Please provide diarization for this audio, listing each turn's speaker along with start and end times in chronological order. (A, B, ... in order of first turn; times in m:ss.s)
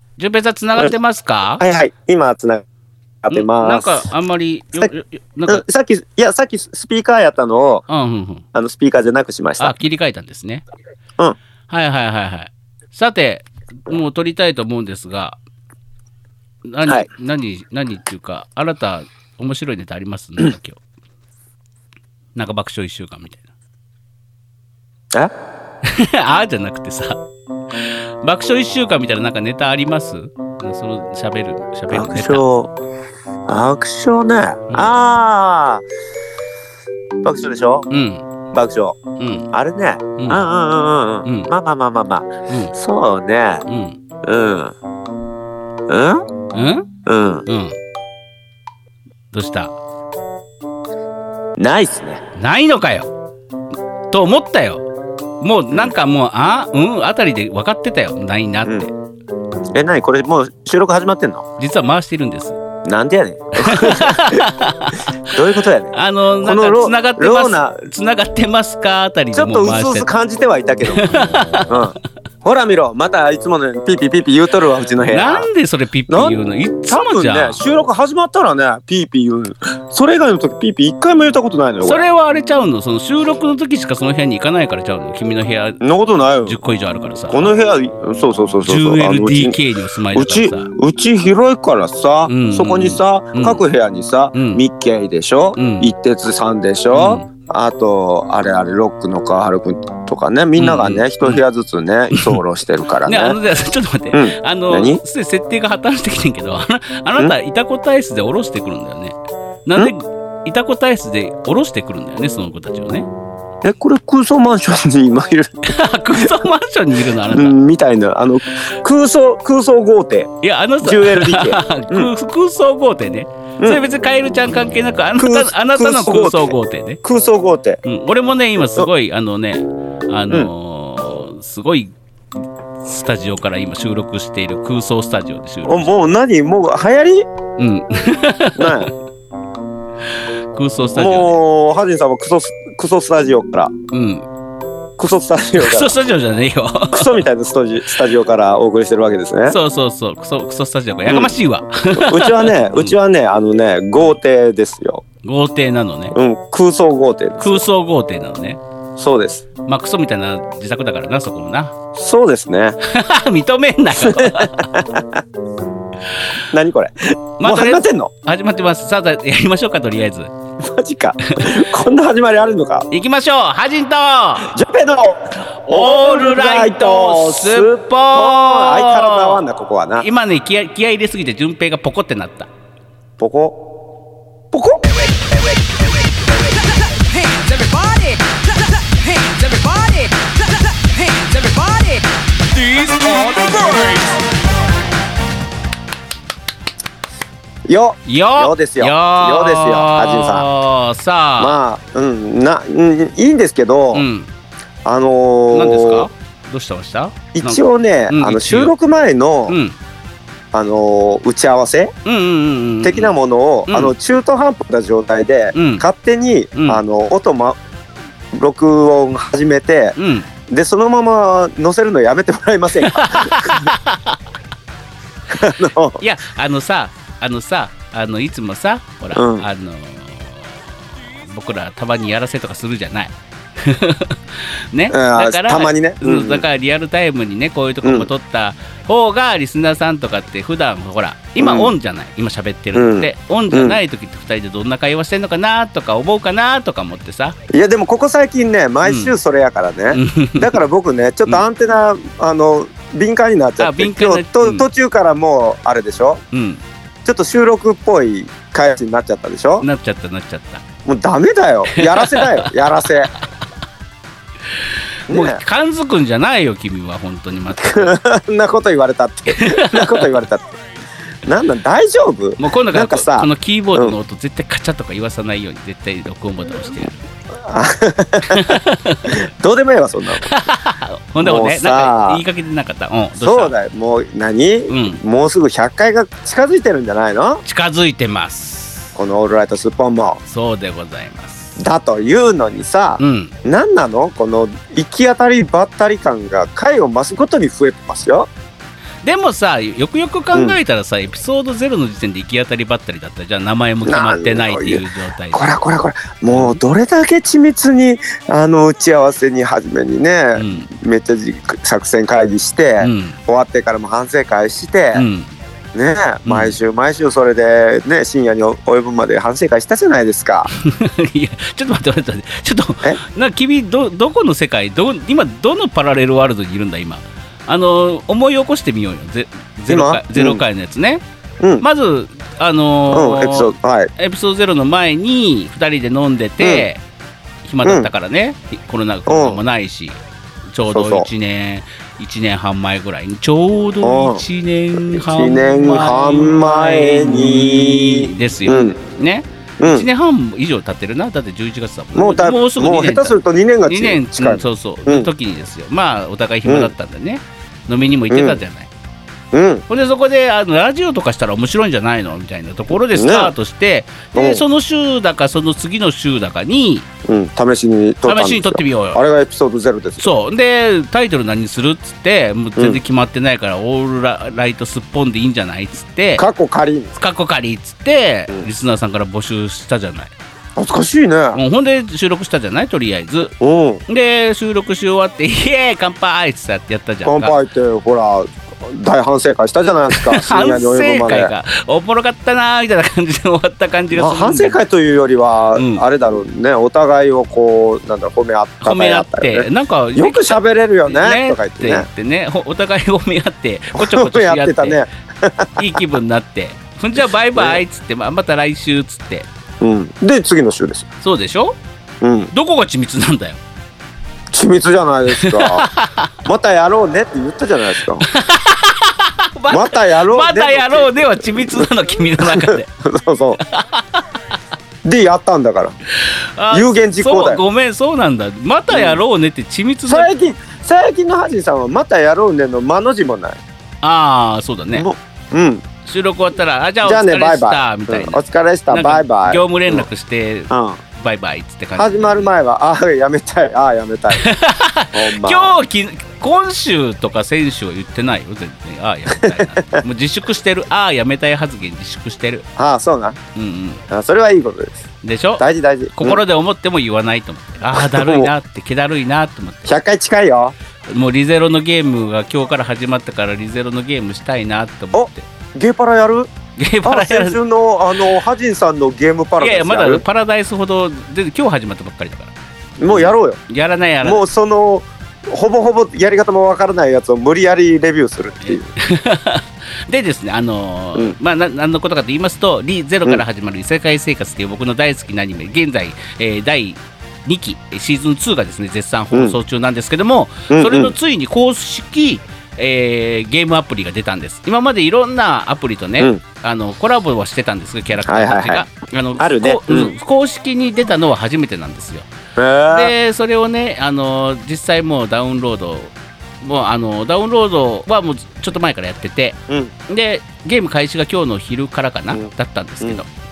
0:00.2-0:01.6 A
0:01.6-0:02.6 B
0:03.2-0:04.0 B
0:03.3-0:05.6 A
0:05.5-0:07.8 B
0:07.9-0:08.4 A
0:08.5-0:09.7 B
0:09.6-0:10.6 A
0:11.7-0:15.4 A
0:16.7-0:20.8 A
0:22.3-0:23.4 A
0:25.8-0:27.2 A
0:27.8-0:32.4 A
0:31.9-0:32.7 B
0:33.5-0:35.8 B
0:37.2-0:37.9 B
0:37.9-0:38.2 A
0:38.5-0:39.0 B
0:39.2-0:39.5 A
0:39.5-0:43.6 B
0:40.2-0:40.4 A
0:41.2-0:41.5 A
0:42.5-0:42.7 A
0:43.7-0:44.0 A
0:44.2-0:44.7 B
0:45.9-0:46.2 B
0:46.5-0:46.9 A
0:47.0-0:47.4 B
0:47.4-0:47.8 A
0:49.3-0:49.7 A
0:51.6-0:52.2 B
0:52.4-0:53.1 A
0:54.1-0:54.8 A
0:55.4-0:58.9 A
0:59.7-1:01.4 B
1:01.6-1:02.6 A
1:02.8-1:04.5 B
1:03.6-1:05.3 A
1:05.2-1:07.8 B
1:05.9-1:10.1 A
1:09.3-1:15.5 B
1:10.9-1:11.9 A
1:15.1-1:17.6 A
1:16.1-1:22.0 B
1:21.8-1:25.8 A
1:25.8-1:26.6 B
1:26.4-1:27.5 A
1:27.3-1:29.6 B
1:28.6-1:30.7 A
1:30.1-1:43.4 B
1:32.3-1:33.6 A
1:34.3-1:34.6 A
1:35.6-1:35.9 A
1:36.9-1:37.2 A
1:40.6-1:41.4 A
1:42.1-1:42.4 A
1:43.0-1:53.1 A
1:44.1-1:45.0 B
1:53.6-1:55.5 B
1:55.6-1:57.6 A
1:56.2-1:56.4 B
1:57.3-2:02.1 B
2:00.4-2:07.0 A
2:05.2-2:07.8 B
2:07.8-2:11.9 A
2:12.8-2:15.9 A
2:15.6-2:17.2 B
2:17.6-2:18.9 A
2:18.6-2:18.9 B
2:20.1-2:21.3 A
2:21.0-2:23.7 B
2:23.9-2:24.3 A
2:25.0-2:25.9 B
2:25.5-2:27.2 A
2:26.9-2:29.6 B
2:29.5-2:32.9 A
2:31.0-2:31.4 B
2:31.9-2:35.0 B
2:35.2-2:36.2 A
2:36.1-2:37.6 B
2:37.4-2:38.6 A
2:39.0-2:39.4 B
2:39.6-2:41.7 A
2:41.9-2:42.8 B
2:42.8-2:44.8 A
2:43.9-2:45.2 B
2:46.5-2:48.1 B
2:47.4-2:50.3 A
2:50.6-2:52.9 B
2:51.3-2:51.5 A
2:52.9-2:54.5 A
2:54.4-3:00.0 B
2:55.7-2:59.4 A
3:00.0-3:02.5 A
3:03.2-3:03.6 B
3:04.5-3:04.8 B
3:07.1-3:08.4 C
3:09.0-3:12.0 C
3:12.5-3:14.1 C
3:17.7-3:20.5 B
3:18.0-3:21.6 A
3:21.4-3:24.0 B
3:23.9-3:24.3 A
3:24.8-3:26.1 B
3:25.5-3:28.7 A
3:27.3-3:29.6 B
3:29.5-3:29.8 A
3:30.5-3:31.9 B
3:32.0-3:33.1 A
3:32.8-3:37.6 B
3:33.7-3:33.9 A
3:35.5-3:35.8 A
3:36.5-3:36.8 A
3:38.3-3:40.0 B
3:40.0-3:40.3 A
3:40.5-3:43.7 B
3:42.8-3:44.2 A
3:45.3-3:46.0 B
3:46.0-4:07.4 A
3:49.1-3:49.4 B
3:54.9-3:56.4 B
3:57.8-3:58.1 B
4:01.4-4:01.7 B
4:02.7-4:03.8 B
4:07.5-4:16.2 B
4:08.8-4:09.1 A
4:09.9-4:10.6 A
4:13.6-4:14.7 A
4:16.3-4:16.6 A
4:17.0-4:19.6 B
4:19.6-4:20.6 A
4:20.8-4:23.1 B
4:21.7-4:22.6 A
4:25.1-4:27.9 A
4:25.1-4:25.4 B
4:27.6-4:30.6 B
4:29.3-4:30.2 A
4:31.2-4:34.0 B
4:32.4-4:37.0 A
4:37.3-4:40.3 B
4:38.3-4:39.1 A
4:40.2-4:43.5 A
4:41.2-4:42.2 B
4:43.2-4:47.4 B
4:44.7-4:45.0 A
4:47.4-4:48.9 A
4:49.0-4:50.2 B
4:50.2-4:51.6 A
4:51.6-4:58.3 B
4:53.0-4:53.3 A
4:59.0-5:05.5 A
5:00.3-5:00.6 B
5:03.8-5:15.0 B
5:06.3-5:06.6 A
5:10.4-5:10.7 A
5:12.8-5:13.2 A
5:14.9-5:15.3 A
5:15.7-5:20.5 B
5:16.2-5:16.5 A
5:20.5-5:31.0 A
5:29.7-5:30.4 B
5:31.6-5:36.8 A
5:32.9-5:33.9 B
5:36.4-5:36.6 B
5:37.4-5:40.0 A
5:37.6-5:37.9 B
5:39.1-5:39.4 B
5:40.5-5:58.7 A
5:40.7-5:41.1 B
5:43.8-5:44.2 B
5:44.8-5:48.8 B
5:49.6-5:49.8 B
5:51.9-5:55.1 B
5:56.5-5:56.7 B
5:58.1-5:58.4 B
5:59.3-5:59.6 B
5:59.7-6:06.9 A
6:02.9-6:03.3 B
6:04.1-6:04.4 B
6:07.0-6:10.1 B
6:08.0-6:09.0 A
6:10.0-6:16.2 A
6:16.2-6:16.9 B
6:16.9-6:20.1 A
6:20.6-6:21.4 B
6:21.3-6:23.3 A
6:23.4-6:23.8 B
6:23.9-6:27.3 A
6:27.0-6:31.3 B
6:29.9-6:34.6 A
6:33.9-6:41.9 B
6:35.6-6:35.8 A
6:38.6-6:44.8 A
6:43.8-6:45.8 B
6:45.6-6:49.2 A
6:47.3-6:47.6 B
6:49.6-6:50.9 B
6:51.0-6:51.6 A
6:52.0-6:52.3 B
6:52.3-6:53.4 A
6:54.3-6:55.7 B
6:55.2-6:56.2 A
6:56.2-6:58.0 B
6:58.0-7:02.7 A
6:59.5-7:03.4 B
7:03.4-7:04.0 A
7:04.8-7:05.7 B
7:06.0-7:10.1 A
7:06.5-7:07.4 B
7:08.7-7:09.0 B
7:09.9-7:13.4 B
7:13.8-7:14.9 A
7:14.7-7:15.6 B
7:15.8-7:22.3 A
7:16.8-7:19.8 B
7:20.5-7:20.8 B
7:21.8-7:24.3 B
7:24.1-7:32.4 A
7:24.9-7:25.5 B
7:29.2-7:29.8 B
7:32.6-7:33.2 B
7:33.3-7:33.8 A
7:33.9-7:34.8 B
7:35.0-7:35.4 A
7:35.4-7:36.2 B
7:36.0-7:39.8 A
7:37.7-7:38.3 B
7:39.6-7:40.5 B
7:40.9-7:45.2 A
7:44.9-7:46.3 B
7:46.6-7:47.4 A
7:46.8-7:50.0 B
7:49.4-7:52.3 A
7:52.8-7:53.4 B
7:52.9-7:54.2 A
7:54.0-7:58.6 B
7:58.4-8:22.1 A
8:10.5-8:10.9 B
8:18.0-8:19.9 B
8:22.4-8:22.9 B
8:22.7-8:33.1 A